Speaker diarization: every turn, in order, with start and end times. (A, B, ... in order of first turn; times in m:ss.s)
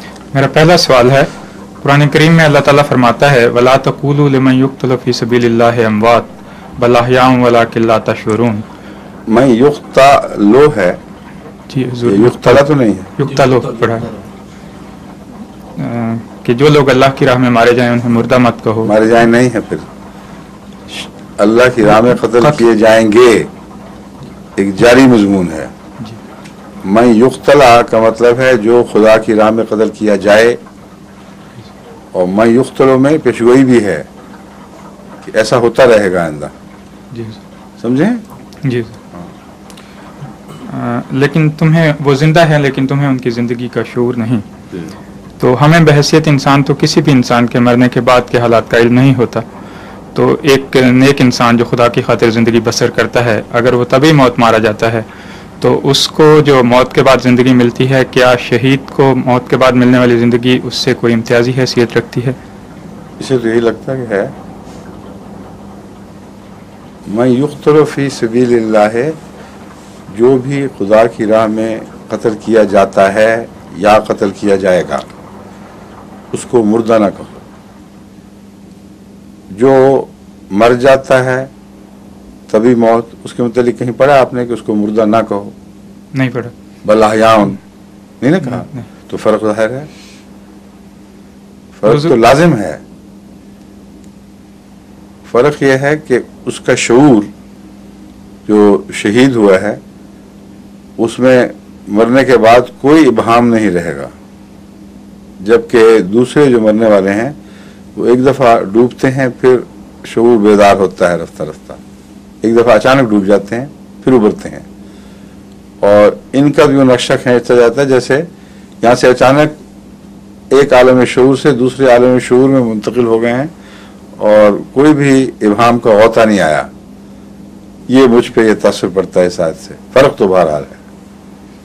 0:00.3-0:01.3 A
0:01.8-0:08.6 A
0:09.3-0:11.0 B
0:11.7-0:14.2 A
0:12.0-0:13.1 B
0:15.8-0:18.9 A
0:18.8-0:19.9 B
0:20.9-0:23.5 B
0:21.9-0:22.6 A
0:24.6-0:25.7 B
0:26.8-0:30.6 B
0:32.1-0:34.1 B
0:35.2-0:36.5 B
0:37.1-0:37.4 A
0:37.8-0:38.2 B
0:38.6-0:39.0 A
0:40.6-0:44.4 A
0:45.4-0:49.4 A
0:50.1-0:55.1 A
0:55.6-1:02.4 A
1:03.2-1:04.3 B
1:07.1-1:09.2 B
1:10.1-1:15.1 B
1:16.3-1:17.4 B
1:19.5-1:21.5 B
1:22.5-1:25.5 B
1:26.1-1:26.5 A
1:26.8-1:27.6 B
1:28.2-1:29.9 B
1:28.4-1:28.9 A
1:31.7-1:32.8 B
1:31.9-1:32.1 A
1:35.2-1:37.3 B
1:38.5-1:39.8 B
1:41.0-1:44.1 B
1:45.4-1:47.4 B
1:48.0-1:51.8 B
1:52.4-1:54.7 B
1:55.8-1:58.2 B
1:58.8-1:59.6 B
2:00.5-2:03.5 B
2:04.2-2:06.7 B
2:07.9-2:10.8 B